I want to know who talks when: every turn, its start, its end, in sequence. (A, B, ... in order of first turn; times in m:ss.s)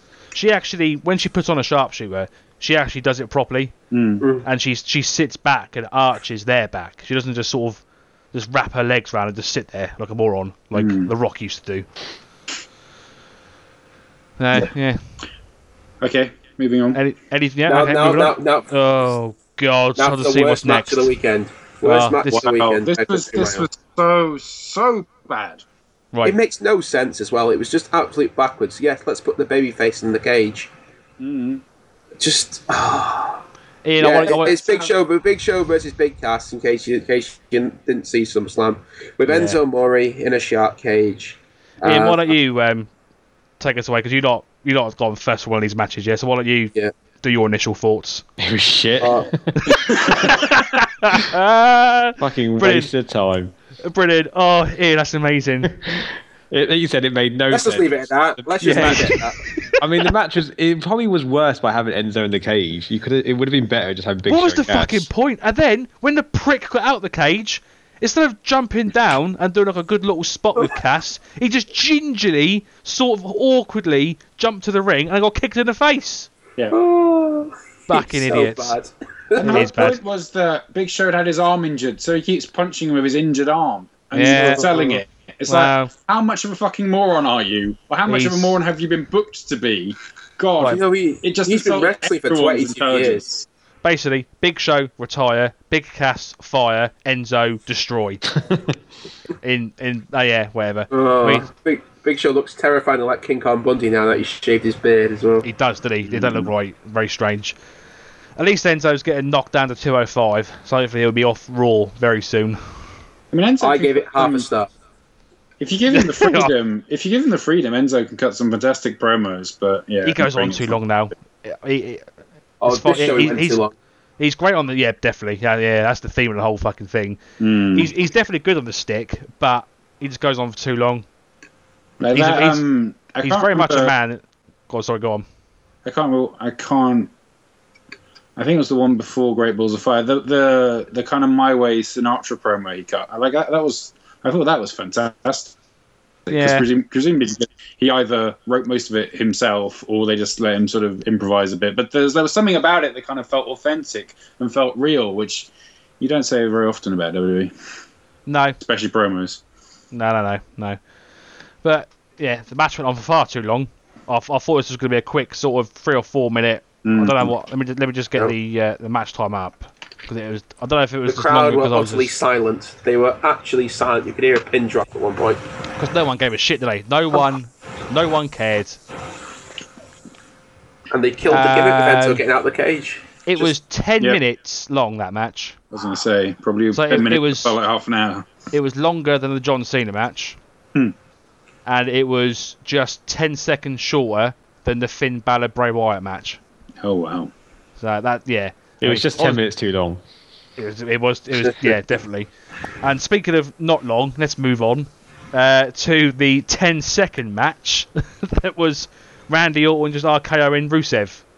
0:00.3-0:03.8 A
0:03.9-0:04.2 B
0:04.2-0:04.5 C
0:04.4-0:11.9 A
0:10.7-0:11.1 B
0:14.4-0:15.0 A
0:16.0-0:17.0 B
0:16.9-0:21.1 A
0:17.7-0:18.7 C
0:20.0-0:23.7 C
0:21.8-0:22.5 A
0:22.3-0:25.6 B
0:26.2-0:30.7 C
0:31.2-0:31.6 B
0:32.2-0:33.4 C
0:33.8-0:34.6 A
0:34.0-0:42.3 C
0:34.6-0:34.9 B
0:39.3-0:39.6 A
0:41.8-0:42.9 A
0:43.6-0:48.3 A
0:48.4-0:49.8 D
0:49.0-0:49.3 C
0:49.6-0:52.9 A
0:52.2-0:53.5 D
0:53.8-0:55.8 A
0:55.8-0:59.2 D
0:57.5-0:59.4 C
0:58.6-0:59.8 A
0:59.8-1:05.1 D
1:04.3-1:16.3 A
1:16.7-1:19.7 C
1:17.9-1:18.8 A
1:19.4-1:20.0 A
1:19.4-1:33.4 B
1:24.1-1:24.7 A
1:24.4-1:25.0 C
1:25.5-1:25.9 A
1:28.1-1:28.6 A
1:30.6-1:33.4 C
1:33.8-1:38.3 A
1:39.4-1:41.5 A
1:40.9-1:45.4 C
1:45.4-1:47.6 A
1:46.1-1:46.5 B
1:48.4-1:52.6 A
1:53.3-1:54.5 B
1:53.6-1:54.7 C
1:55.6-2:00.8 B
1:55.9-1:56.5 A
2:00.0-2:02.0 A
2:02.6-2:03.7 C
2:02.7-2:03.6 A
2:04.2-2:07.2 A
2:07.4-2:07.9 B
2:07.7-2:11.1 A
2:12.0-2:13.9 B
2:12.1-2:12.7 A
2:13.2-2:15.2 A
2:15.8-2:17.1 B
2:18.4-2:25.6 B
2:26.2-2:37.5 B
2:26.3-2:26.6 A
2:38.3-2:38.6 A
2:38.6-2:39.4 B
2:39.9-2:40.8 A
2:41.6-2:52.1 A
2:46.8-2:47.3 B
2:51.1-2:55.4 C
2:55.8-2:58.8 A
3:00.9-3:03.5 C
3:01.3-3:02.2 A
3:03.3-3:05.6 A
3:05.7-3:08.3 B
3:06.7-3:07.6 A
3:08.5-3:10.4 A
3:11.7-3:16.4 A
3:16.8-3:17.3 B
3:17.8-3:19.4 A
3:18.8-3:20.0 D
3:20.6-3:22.3 A
3:21.4-3:21.7 C
3:22.8-3:31.2 A